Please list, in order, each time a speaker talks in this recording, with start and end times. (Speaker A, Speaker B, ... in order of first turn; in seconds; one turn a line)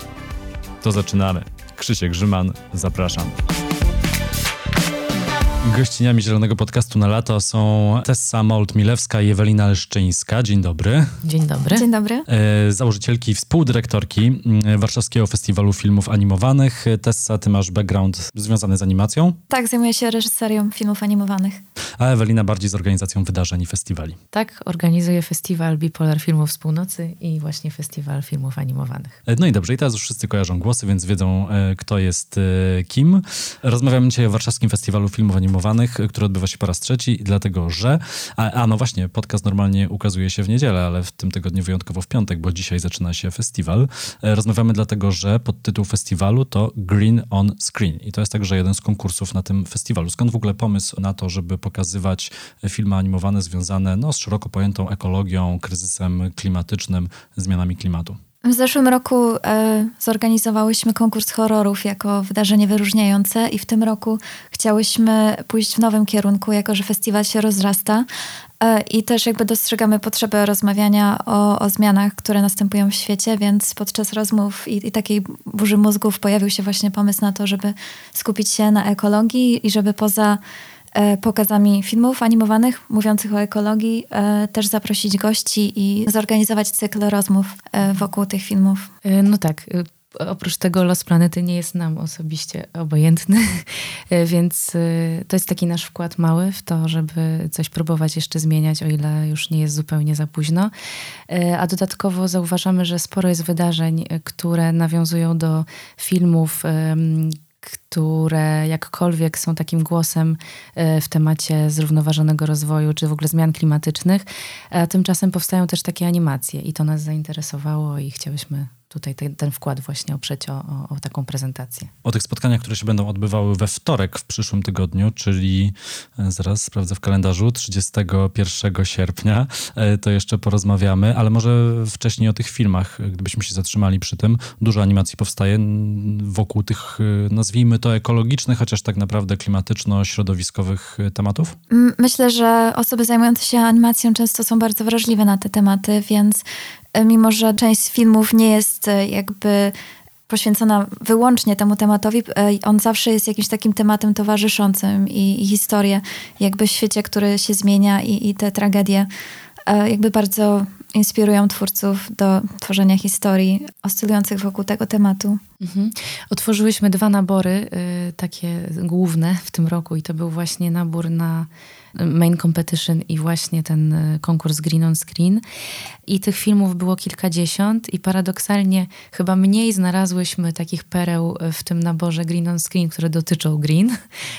Speaker A: 0.8-3.3
Speaker A: 5.6-11.2
Speaker B: 11.2-11.8
Speaker C: 11.7-12.2
Speaker A: 12.3-19.4
Speaker C: 19.5-21.6
Speaker A: 22.0-24.2
Speaker B: 24.3-29.2
Speaker A: 29.2-58.2
Speaker C: 58.4-68.1
Speaker C: 68.6-80.4
Speaker C: 80.9-88.9
Speaker B: 89.0-100.7
Speaker B: 101.3-121.9
Speaker A: 122.0-141.6
Speaker C: 141.7-149.7
Speaker C: 150.3-159.1
Speaker C: 159.7-165.4
Speaker B: 165.6-175.4
Speaker B: 176.1-183.9